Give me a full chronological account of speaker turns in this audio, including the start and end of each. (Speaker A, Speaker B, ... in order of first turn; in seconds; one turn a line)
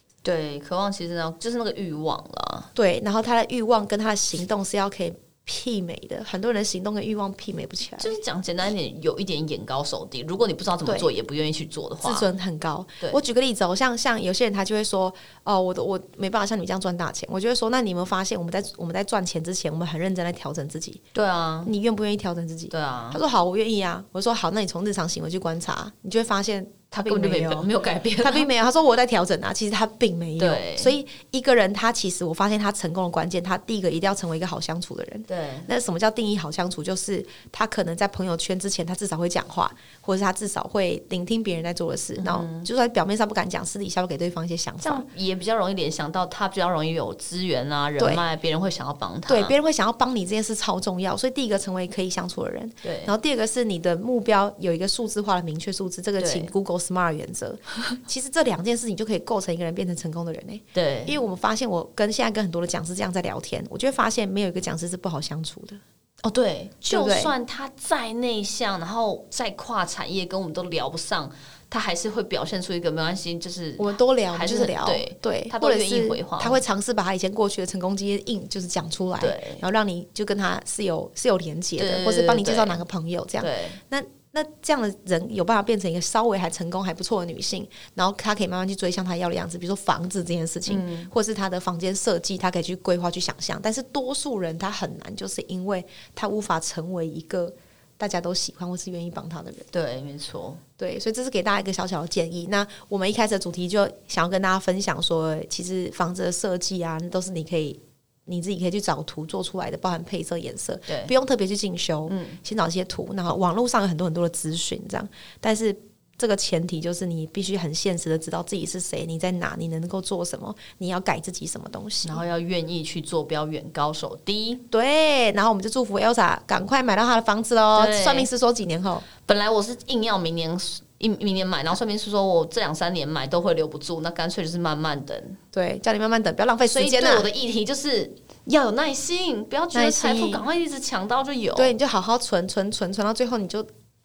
Speaker A: 0.2-2.7
Speaker B: 2.8-8.1
Speaker A: 8.0-12.3
Speaker B: 10.8-11.1
Speaker B: 12.0-21.0
Speaker A: 21.1-21.7
Speaker B: 21.6-27.7
Speaker A: 22.7-23.2
Speaker A: 26.9-28.5
Speaker B: 28.2-45.0
Speaker A: 30.4-30.9
Speaker A: 35.3-35.7
Speaker A: 42.1-42.7
Speaker A: 44.8-49.5
Speaker B: 48.0-48.2
Speaker B: 49.3-65.8
Speaker A: 52.8-53.1
Speaker A: 56.2-56.5
Speaker A: 60.7-61.2
Speaker A: 66.2-76.6
Speaker B: 66.9-67.3
Speaker B: 73.8-99.7
Speaker A: 79.2-79.6
Speaker A: 81.8-82.8
Speaker A: 83.4-83.8
Speaker A: 90.7-91.1
Speaker A: 99.7-100.6
Speaker B: 100.8-122.2
Speaker A: 110.9-111.1
Speaker A: 112.1-112.4
Speaker A: 122.0-124.6
Speaker B: 124.7-129.1
Speaker A: 127.7-128.3
Speaker A: 129.2-135.4
Speaker B: 135.5-137.3
Speaker A: 136.6-141.7
Speaker B: 139.7-140.4
Speaker B: 141.6-143.7